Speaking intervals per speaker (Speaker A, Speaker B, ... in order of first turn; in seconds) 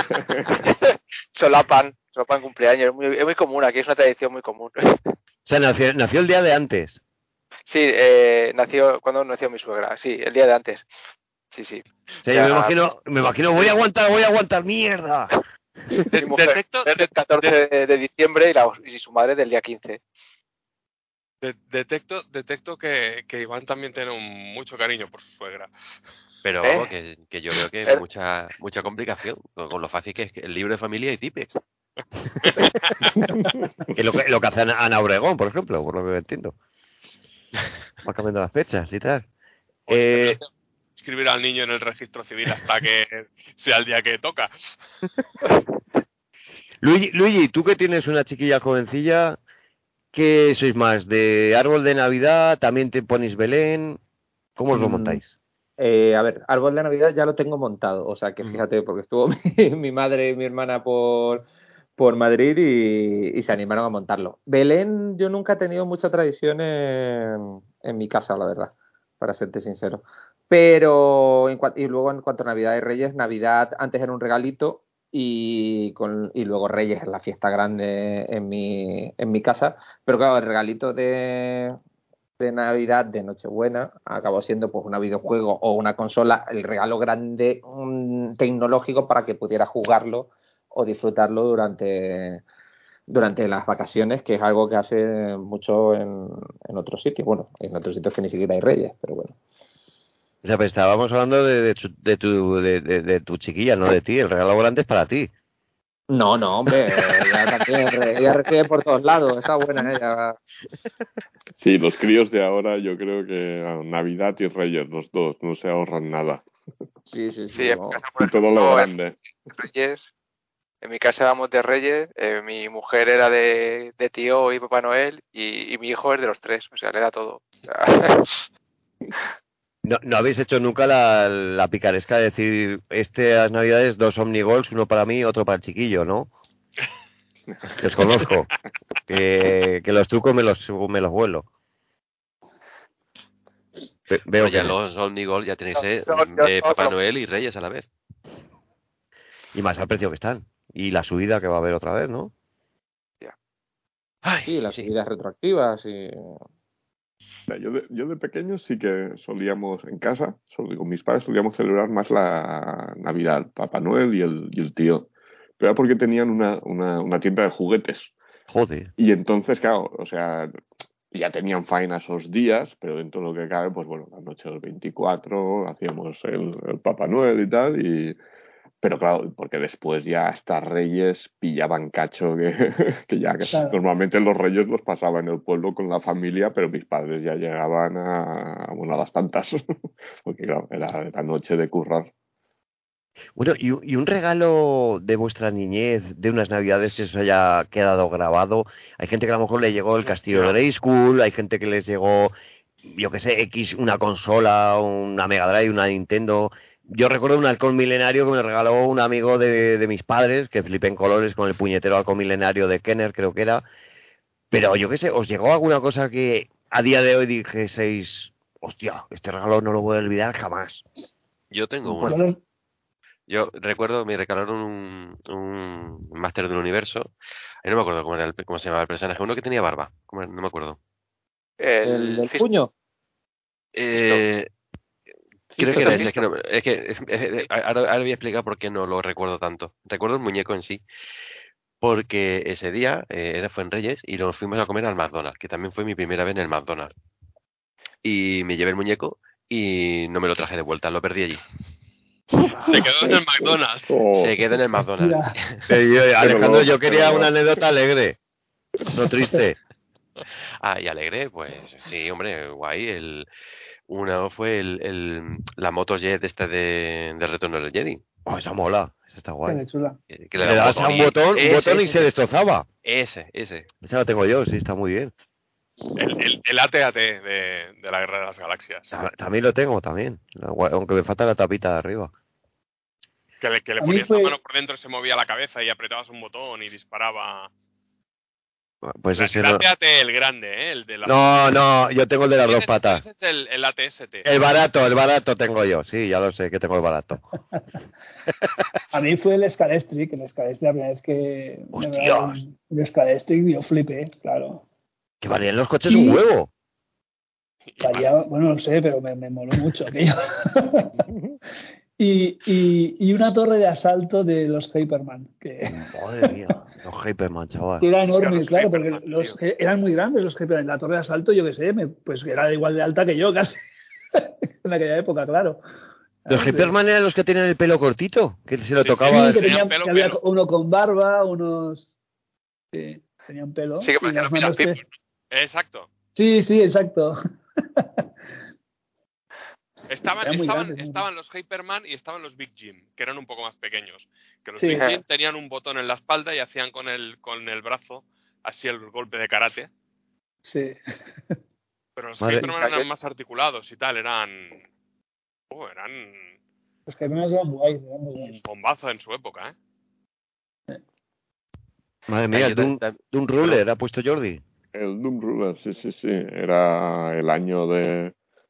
Speaker A: 0.5-5.1, 7.7-10.8, 11.5-12.7, 16.1-20.0, 26.6-26.9, 117.5-118.9, 119.6-120.1, 120.8-128.3, 145.8-146.9, 231.6-232.5, 235.6-236.2, 333.8-334.8, 344.7-345.0, 352.4-352.8
Speaker B: 5.5-7.0, 12.2-15.3, 33.9-36.5, 38.0-39.2, 39.9-40.4, 46.8-49.4, 50.1-54.0, 54.5-55.3, 100.4-105.3, 129.8-136.3, 137.8-138.5, 139.1-141.4, 144.1-144.7, 149.5-152.3, 168.5-168.9, 193.4-202.3, 202.8-213.6, 214.5-220.8, 255.7-258.2, 258.9-259.6, 268.2-269.6, 270.4-272.6, 273.8-275.1, 278.9-282.1, 288.8-289.6, 291.0-293.0, 294.2-297.2, 301.7-302.4, 305.2-306.5, 315.7-317.9, 326.3-329.6, 352.2-352.5, 362.1-364.4
Speaker C: 16.1-17.5, 21.4-25.7, 32.4-33.2, 39.9-44.8, 200.1-200.6, 252.5-254.0, 276.0-279.1, 283.4-287.5, 289.1-291.2, 292.4-294.4, 307.7-308.1, 318.1-319.4, 328.8-330.2, 335.3-335.9, 339.9-349.7, 351.9-354.6, 355.5-356.3, 358.4-359.5
Speaker D: 26.4-31.5, 144.4-147.9, 154.2-154.9, 221.5-222.2, 223.3-227.1, 227.6-230.8, 233.8-234.5, 235.6-240.8, 241.8-246.9, 248.0-251.4, 254.2-255.6, 260.6-263.3, 263.9-268.0, 270.1-272.1, 272.8-273.7, 362.3-363.6
Speaker E: 55.8-61.4, 62.0-81.8, 82.4-92.4, 93.1-99.4, 106.1-110.3, 117.1-118.0, 154.5-156.4, 231.8-232.7, 235.6-236.0
Speaker F: 111.6-116.4, 118.2-119.2, 157.5-168.1, 169.0-170.5, 171.1-178.2, 178.8-189.6, 190.2-192.1, 252.7-254.4, 256.2-257.3, 364.7-368.1
Speaker G: 183.4-183.8, 221.8-222.4, 254.9-255.3, 269.5-270.0, 283.8-284.4, 298.9-304.6, 305.9-306.2, 307.8-311.0, 312.0-316.3, 317.8-323.6, 324.1-325.6, 326.2-326.7, 329.0-331.9, 332.7-334.8, 336.1-337.1, 337.8-338.1, 340.2-341.0, 344.6-344.8, 350.4-350.8, 356.9-358.4